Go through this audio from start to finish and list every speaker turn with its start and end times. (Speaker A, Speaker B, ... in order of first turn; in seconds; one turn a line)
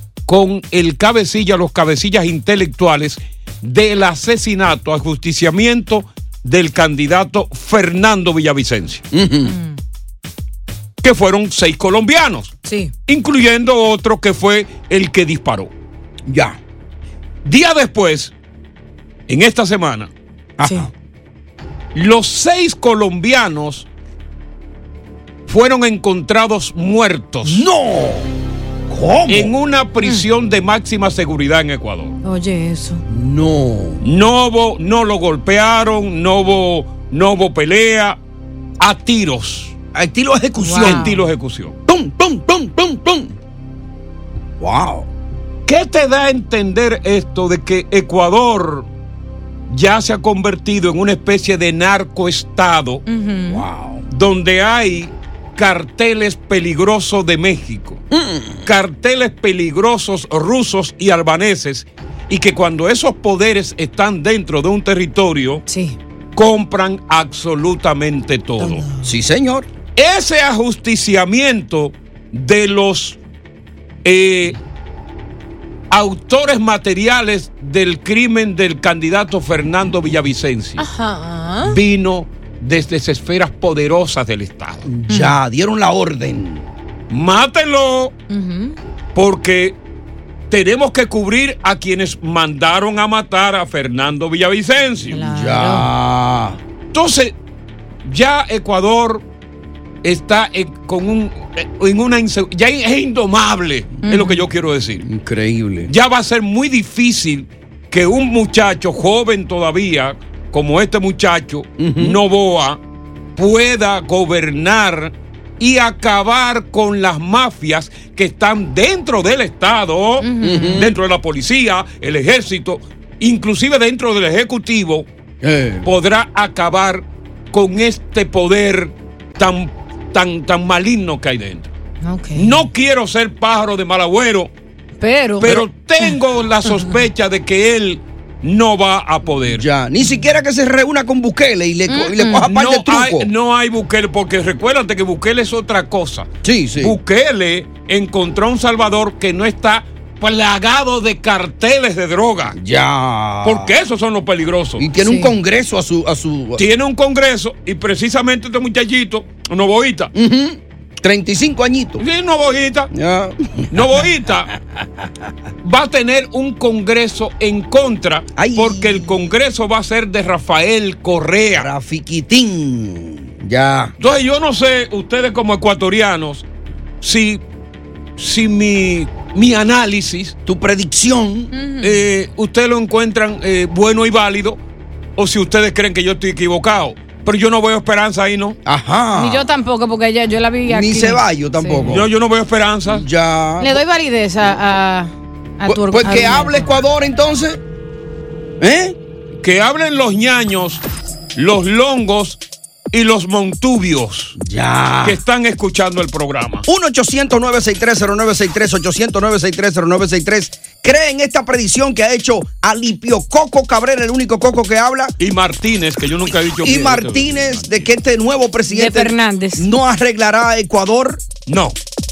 Speaker A: 0.3-9.0
Speaker B: 9.1-9.6
Speaker C: 9.5-9.8
Speaker A: 11.0-12.6
Speaker C: 12.6-12.9
Speaker A: 13.1-15.7
Speaker B: 16.2-16.6
Speaker A: 17.4-18.3
Speaker A: 19.3-20.1
Speaker B: 20.6-20.9
Speaker C: 20.6-20.9
Speaker A: 21.9-23.9
Speaker A: 25.5-27.6
Speaker B: 27.4-28.3
Speaker B: 28.9-29.5
Speaker A: 29.3-32.2
Speaker C: 32.2-33.0
Speaker B: 33.1-34.0
Speaker A: 34.0-38.2
Speaker A: 38.8-39.7
Speaker B: 39.9-41.1
Speaker C: 40.6-41.1
Speaker A: 40.8-41.7
Speaker B: 41.9-43.3
Speaker B: 44.6-45.1
Speaker A: 45.6-48.9
Speaker A: 49.7-53.0
Speaker C: 53.1-53.6
Speaker B: 53.5-54.0
Speaker A: 54.1-58.0
Speaker B: 58.1-58.7
Speaker A: 58.6-65.6
Speaker C: 65.7-66.0
Speaker A: 66.3-68.8
Speaker C: 68.6-69.1
Speaker B: 69.0-69.7
Speaker A: 70.0-73.2
Speaker A: 74.0-74.6
Speaker A: 75.9-80.8
Speaker C: 80.8-81.8
Speaker A: 81.6-84.9
Speaker B: 84.8-86.7
Speaker C: 85.1-85.3
Speaker A: 87.1-88.2
Speaker C: 88.3-88.8
Speaker A: 89.1-89.8
Speaker A: 90.5-95.2
Speaker C: 95.1-95.9
Speaker B: 95.2-96.6
Speaker A: 96.9-97.3
Speaker A: 98.0-99.2
Speaker A: 100.0-105.0
Speaker C: 104.0-104.4
Speaker B: 105.0-105.9
Speaker A: 105.9-112.8
Speaker B: 111.8-112.2
Speaker A: 113.4-125.1
Speaker C: 120.2-120.8
Speaker B: 120.4-120.9
Speaker B: 125.4-125.9
Speaker A: 125.8-131.7
Speaker C: 132.0-132.6
Speaker A: 132.3-134.5
Speaker C: 135.0-136.1
Speaker A: 135.4-139.6
Speaker B: 139.5-143.3
Speaker C: 141.9-142.4
Speaker A: 142.4-152.6
Speaker B: 146.4-147.0
Speaker B: 152.5-153.7
Speaker A: 153.4-154.8
Speaker B: 154.8-156.6
Speaker C: 155.0-155.3
Speaker A: 156.6-160.1
Speaker B: 160.1-162.0
Speaker A: 162.0-162.9
Speaker B: 162.9-163.8
Speaker A: 163.7-164.5
Speaker A: 165.6-171.7
Speaker B: 168.4-169.2
Speaker B: 171.5-173.9
Speaker A: 174.0-176.4
Speaker A: 177.0-177.4
Speaker A: 178.2-180.3
Speaker B: 180.4-181.5
Speaker C: 181.5-182.0
Speaker A: 181.8-184.6
Speaker A: 185.2-188.6
Speaker B: 188.6-189.5
Speaker C: 189.1-191.9
Speaker B: 190.7-192.1
Speaker A: 191.8-193.1
Speaker B: 192.8-193.8
Speaker C: 193.6-196.8
Speaker B: 195.7-197.6
Speaker B: 198.6-199.0
Speaker A: 199.4-200.8
Speaker A: 201.3-202.4
Speaker A: 202.9-204.3
Speaker B: 204.3-205.2
Speaker A: 205.0-206.7
Speaker B: 206.7-215.1
Speaker A: 215.2-217.9
Speaker B: 216.6-221.2
Speaker C: 218.7-219.7
Speaker A: 221.5-221.8